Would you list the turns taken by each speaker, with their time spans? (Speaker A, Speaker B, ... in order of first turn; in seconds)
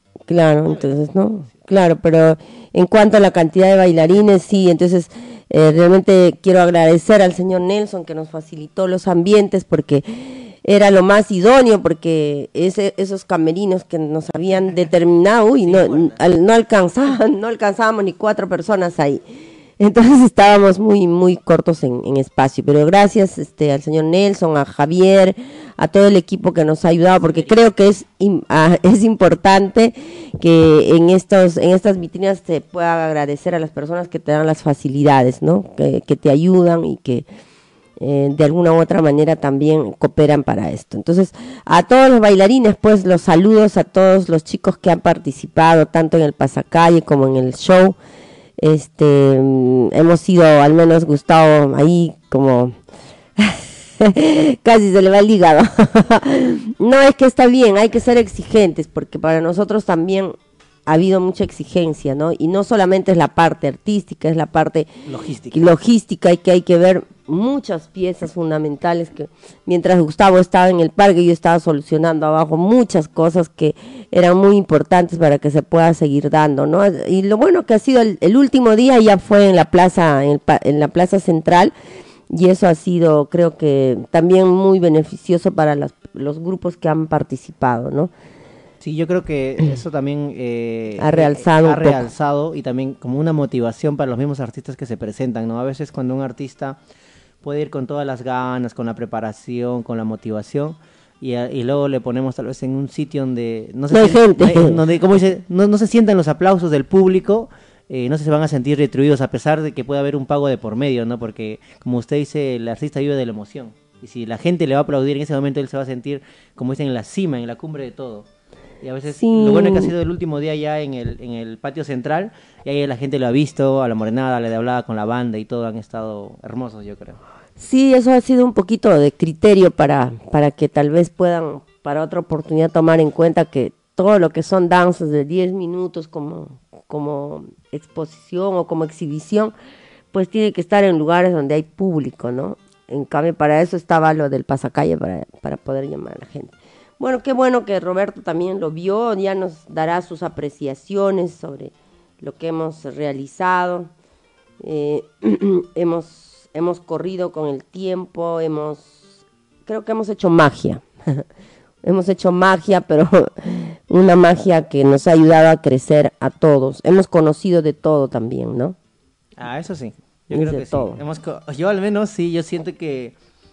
Speaker A: 0.3-19.2, 19.8-37.2, 38.0-48.0, 48.6-52.7, 53.4-64.9, 65.5-81.7, 82.3-88.1, 91.0-92.1, 103.9-104.8, 119.1-119.9, 127.6-139.5, 140.1-153.9, 154.6-159.1, 159.7-161.2, 161.8-168.8, 170.3-171.0
Speaker B: 0.6-1.0, 15.6-16.2, 27.2-27.6, 65.0-65.7, 88.8-96.8, 97.4-118.3, 118.8-127.2, 169.4-173.2